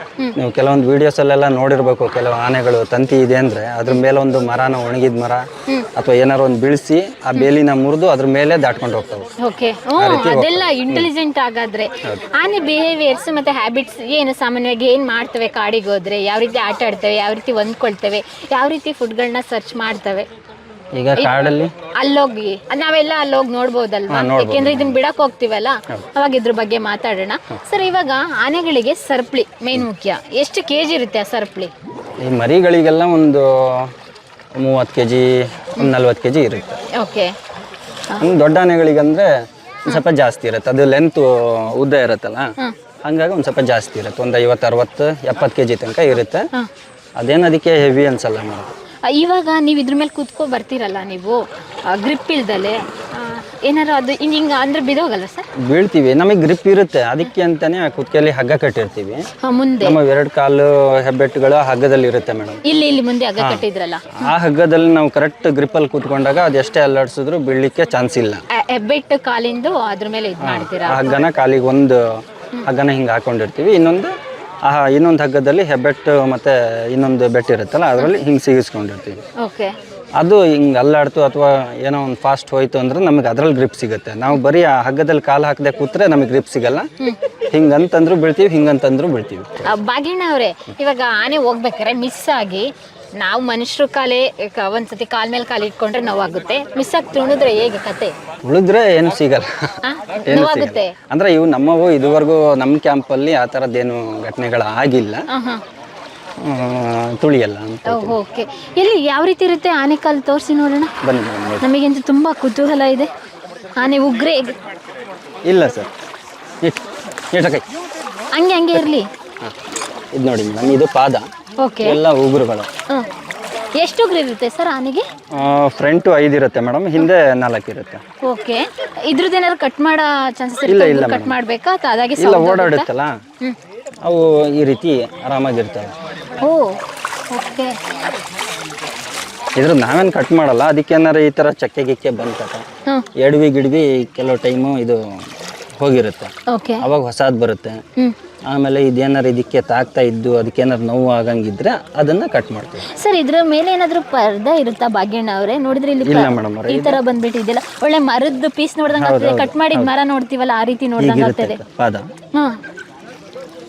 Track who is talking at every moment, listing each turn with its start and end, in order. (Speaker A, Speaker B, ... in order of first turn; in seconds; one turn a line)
Speaker A: 0.3-5.4
Speaker A: 6.0-9.3
Speaker B: 9.4-20.3
Speaker A: 10.0-11.1
Speaker A: 20.9-21.7
Speaker B: 21.1-31.7
Speaker A: 24.1-24.9
Speaker A: 32.2-33.9
Speaker A: 34.6-36.8
Speaker B: 36.9-37.3
Speaker A: 38.2-39.3
Speaker A: 39.9-42.5
Speaker A: 43.0-46.5
Speaker A: 47.2-48.7
Speaker B: 49.0-55.5
Speaker A: 55.6-59.2
Speaker B: 59.4-60.0
Speaker A: 59.8-62.6
Speaker B: 62.6-64.3
Speaker A: 64.1-68.4
Speaker B: 68.5-71.2
Speaker A: 70.4-72.1
Speaker A: 72.6-74.1
Speaker A: 74.7-79.2
Speaker B: 79.4-79.8
Speaker A: 80.2-86.9
Speaker A: 87.5-89.7
Speaker B: 89.6-98.1
Speaker A: 98.4-99.5
Speaker B: 99.8-100.9
Speaker A: 100.2-105.2
Speaker B: 105.3-105.6
Speaker A: 106.4-108.2
Speaker B: 107.9-110.9
Speaker A: 111.0-111.7
Speaker B: 111.6-113.1
Speaker B: 113.8-114.5
Speaker A: 115.5-115.9
Speaker A: 117.3-117.7
Speaker B: 118.3-119.1
Speaker A: 120.1-121.3
Speaker B: 121.6-122.0
Speaker A: 121.8-122.7
Speaker B: 123.8-125.0
Speaker A: 125.3-128.0
Speaker B: 128.2-132.9
Speaker A: 130.7-131.3
Speaker A: 132.2-133.1
Speaker A: 134.0-135.9
Speaker B: 136.4-136.8
Speaker B: 137.3-137.8
Speaker A: 139.6-142.6
Speaker A: 143.2-145.0
Speaker A: 145.8-147.8
Speaker B: 146.5-146.8
Speaker A: 148.5-152.9
Speaker B: 152.8-161.6
Speaker A: 156.0-157.0
Speaker A: 158.9-159.9
Speaker A: 161.0-162.1